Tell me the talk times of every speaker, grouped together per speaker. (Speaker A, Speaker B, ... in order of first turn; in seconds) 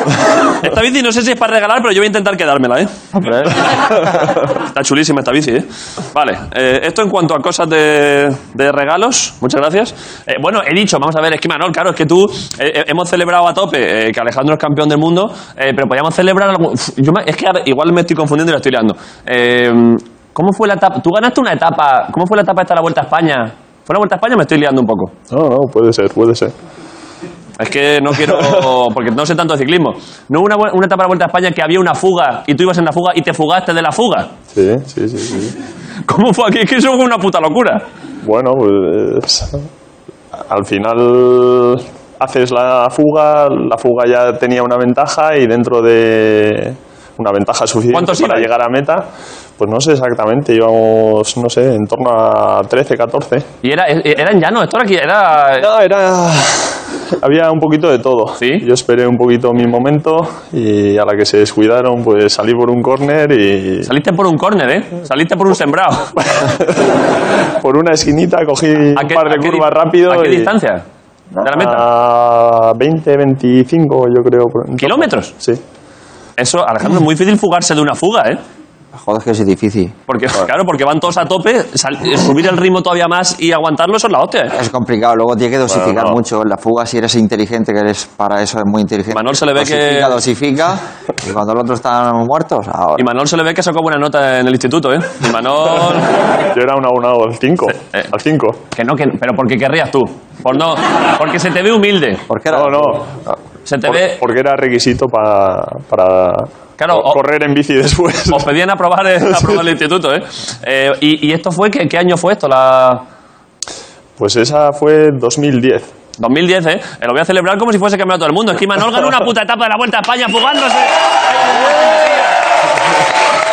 Speaker A: 0.5-2.9, 4.5-25.1, 27.6-34.3, 36.1-37.8, 47.9-48.5, 53.6-55.7, 58.4-58.7, 63.8-66.2, 69.0-70.8, 71.4-71.8, 74.8-75.3, 76.4-78.4, 80.1-84.6, 89.1-90.2, 93.0-96.1, 97.8-98.1, 98.7-102.2, 103.7-104.2, 106.8-107.2, 108.3-113.0, 116.2-121.0, 121.5-122.1
Speaker B: 3.1-3.6, 79.0-80.0, 84.5-93.1, 102.3-103.4
Speaker C: 25.3-26.5, 28.2-28.7, 34.5-35.5, 38.2-39.7, 40.5-49.1, 49.6-53.5, 55.6-63.9, 66.4-66.9, 67.6-70.5, 71.5-75.6, 85.7-86.1, 96.5-98.6, 102.5-103.1, 103.9-108.5, 109.3-109.6, 114.2-115.9